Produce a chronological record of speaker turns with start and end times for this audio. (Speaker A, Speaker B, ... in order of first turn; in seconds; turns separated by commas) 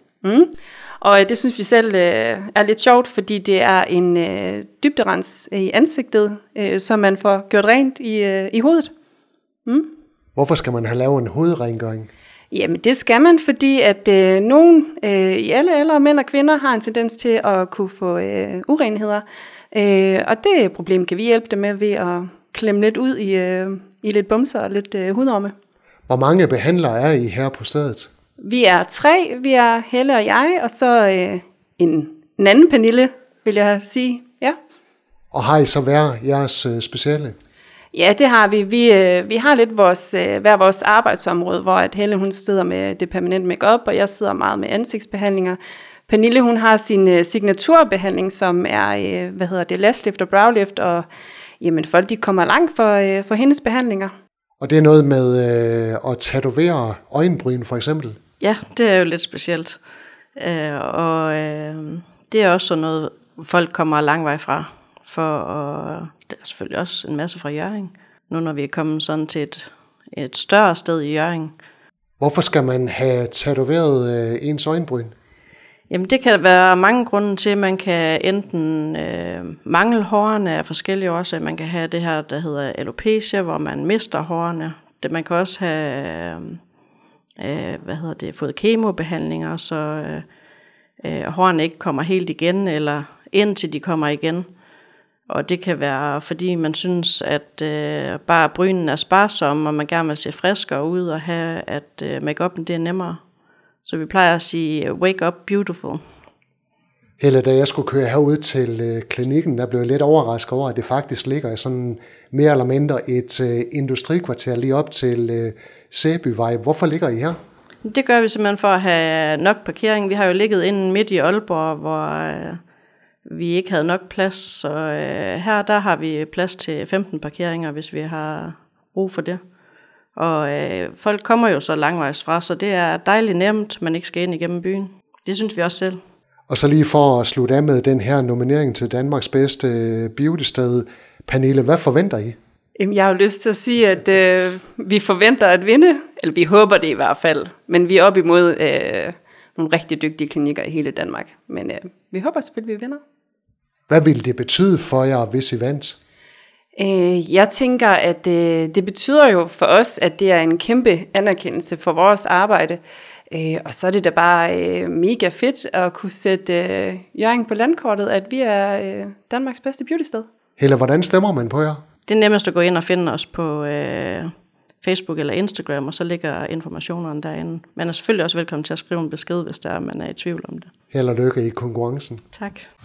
Speaker A: 0.2-8.9, Speaker B: 10.3-12.1, Speaker A: 12.5-25.5, Speaker B: 26.1-28.1, Speaker A: 28.4-34.5, Speaker B: 35.3-37.4, Speaker A: 37.9-51.0, Speaker A: 51.6-54.1, Speaker B: 54.6-58.2, Speaker C: 58.4-59.8, Speaker C: 60.4-71.5, Speaker B: 72.2-75.1, Speaker C: 75.9-86.6, Speaker C: 87.4-90.2, Speaker C: 91.0-94.5, Speaker C: 95.3-103.2, Speaker C: 103.8-106.0, Speaker B: 107.2-117.4, Speaker C: 117.8-122.6, Speaker C: 123.2-129.4, Speaker C: 130.2-136.0, Speaker B: 136.5-142.4, Speaker A: 142.8-153.0, Speaker B: 153.9-156.0, Speaker A: 156.8-170.2, Speaker B: 170.6-171.8, Speaker C: 172.1-174.3, Speaker C: 174.8-180.7, Speaker B: 180.9-182.2, Speaker C: 182.3-182.7